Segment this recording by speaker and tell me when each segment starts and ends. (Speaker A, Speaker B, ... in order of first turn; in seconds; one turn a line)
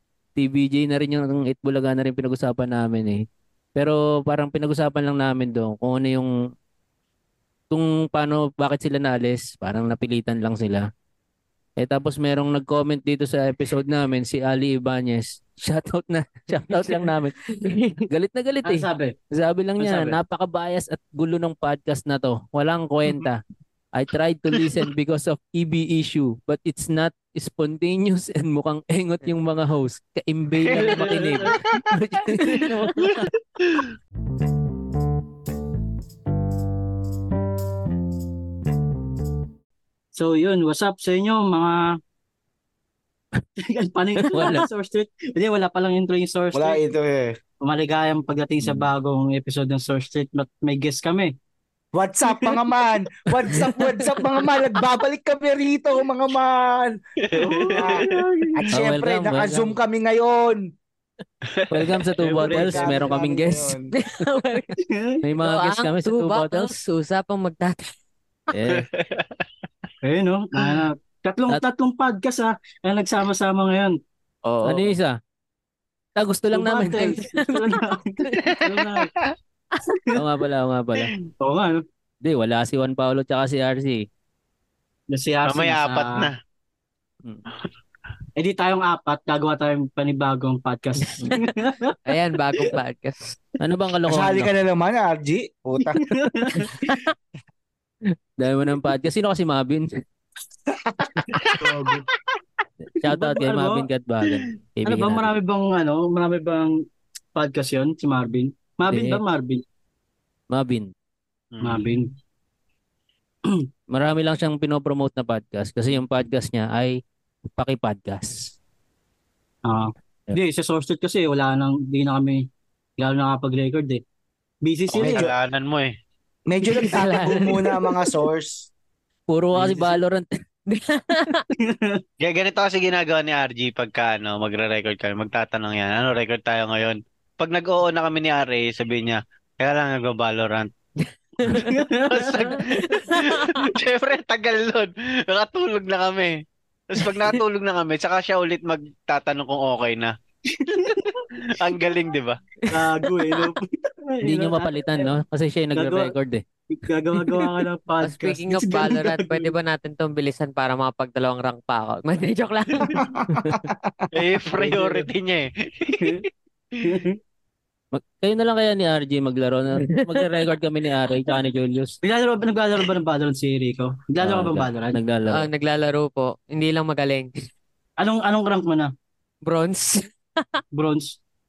Speaker A: 0.4-6.3
Speaker A: 7.7-10.9
Speaker A: 11.8-23.4
Speaker B: 17.5-18.1
Speaker C: 18.6-19.1
Speaker C: 19.8-20.2
Speaker A: 23.9-33.3
Speaker D: 30.7-31.6
Speaker C: 30.7-31.5
Speaker B: 32.4-32.9
Speaker D: 33.0-33.9
Speaker C: 40.1-42.0
Speaker C: 43.6-46.8
Speaker A: 44.2-44.7
Speaker E: 46.5-47.4
Speaker C: 47.6-51.3
Speaker E: 51.9-57.0
Speaker C: 52.2-52.5
Speaker D: 57.2-58.2
Speaker C: 57.3-58.6
Speaker E: 57.7-60.6
Speaker A: 58.7-59.7
Speaker D: 61.5-61.9
Speaker A: 61.7-63.8
Speaker C: 62.2-63.1
Speaker E: 62.4-63.9
Speaker B: 63.9-64.8
Speaker C: 64.8-65.2
Speaker A: 65.2-66.8
Speaker B: 65.4-67.9
Speaker A: 68.5-68.9
Speaker D: 68.7-69.4
Speaker C: 70.0-74.0
Speaker D: 70.6-70.8
Speaker B: 74.4-74.9
Speaker A: 74.6-75.2
Speaker A: 76.2-77.6
Speaker C: 76.5-79.1
Speaker D: 78.5-79.3
Speaker C: 79.9-80.2
Speaker A: 80.1-81.1
Speaker C: 81.4-81.8
Speaker A: 82.2-84.0
Speaker C: 85.1-86.3
Speaker D: 85.5-86.3
Speaker C: 88.3-92.0
Speaker B: 92.0-93.4
Speaker A: 93.6-94.5
Speaker E: 94.1-96.2
Speaker C: 95.8-96.7
Speaker B: 96.6-97.1
Speaker A: 98.4-100.0
Speaker E: 100.7-101.5
Speaker C: 101.6-102.1
Speaker A: 102.8-105.4
Speaker C: 103.0-106.7
Speaker C: 107.3-109.6
Speaker A: 108.9-109.2
Speaker A: 110.5-110.9
Speaker D: 111.5-111.9
Speaker C: 111.6-112.1
Speaker A: 113.9-117.0
Speaker A: 117.5-118.5
Speaker C: 119.6-122.5
Speaker C: 123.0-124.0
Speaker C: 124.6-125.2
Speaker D: 124.9-125.9
Speaker E: 125.0-125.3
Speaker E: 126.5-128.7
Speaker B: 127.0-127.5
Speaker C: 127.0-127.4
Speaker A: 129.3-130.3
Speaker C: 129.5-130.0
Speaker B: 130.7-131.4
Speaker C: 131.5-132.0
Speaker D: 132.2-140.7
Speaker B: 141.4-141.7
Speaker C: 141.5-142.6
Speaker D: 142.1-146.4
Speaker B: 142.8-143.5
Speaker D: 146.9-150.1
Speaker C: 150.5-151.7
Speaker D: 151.4-152.4
Speaker B: 152.6-153.4
Speaker C: 152.7-155.1
Speaker A: 154.2-156.4
Speaker C: 155.8-156.1
Speaker C: 156.7-159.5
Speaker B: 158.0-163.6
Speaker E: 162.9-164.1
Speaker D: 164.1-166.2
Speaker C: 164.5-165.1
Speaker C: 166.0-166.2
Speaker C: 166.8-167.2
Speaker A: 167.9-171.9
Speaker B: 169.8-170.2
Speaker C: 172.0-175.0
Speaker A: 174.2-175.4
Speaker B: 175.3-177.3
Speaker C: 178.0-178.9
Speaker B: 179.4-180.6
Speaker C: 180.7-181.2